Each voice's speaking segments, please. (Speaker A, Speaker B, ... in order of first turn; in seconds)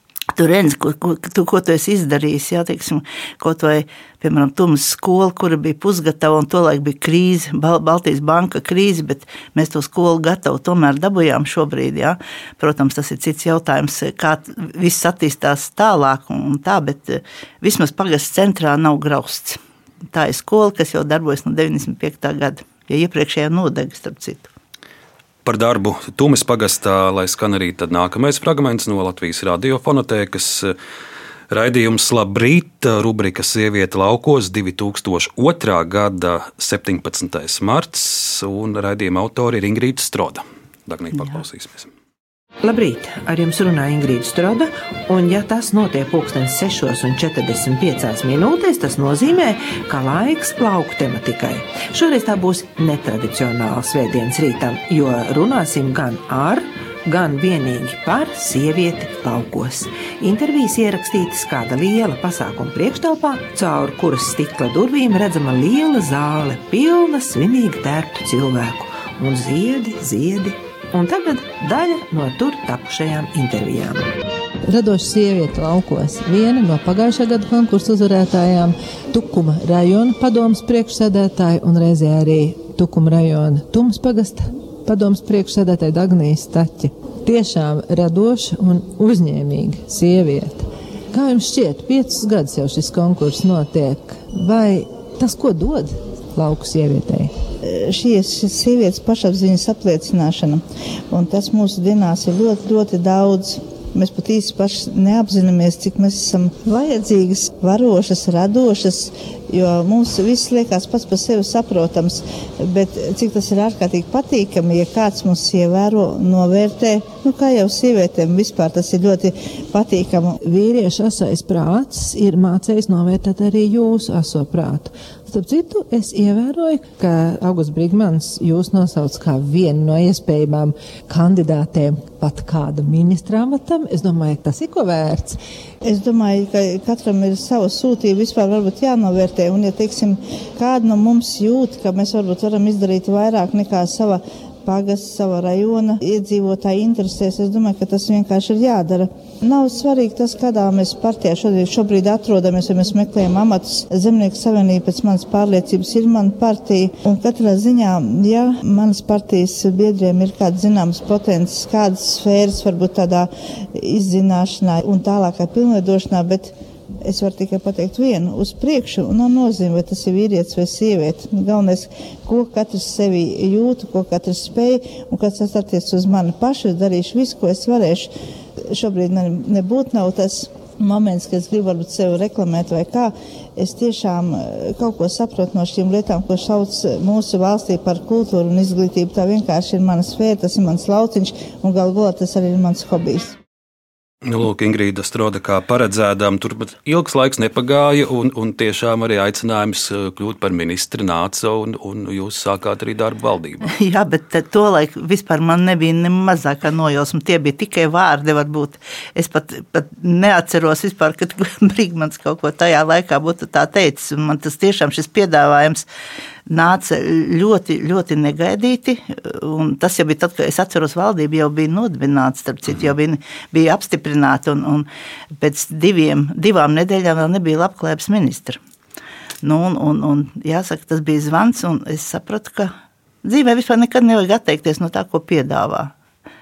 Speaker A: 0.3-19.6, 20.1-24.5, 97.6-100.6, 101.1-120.4, 135.8-166.5, 167.0-178.1, 178.7-193.3, 203.7-215.9, 216.5-224.9, 225.4-228.6, 229.4-232.7, 233.2-235.9
Speaker B: 25.4-30.7, 31.5-41.9, 194.2-203.7
Speaker C: 42.6-74.1
Speaker D: 74.6-97.3, 120.4-135.4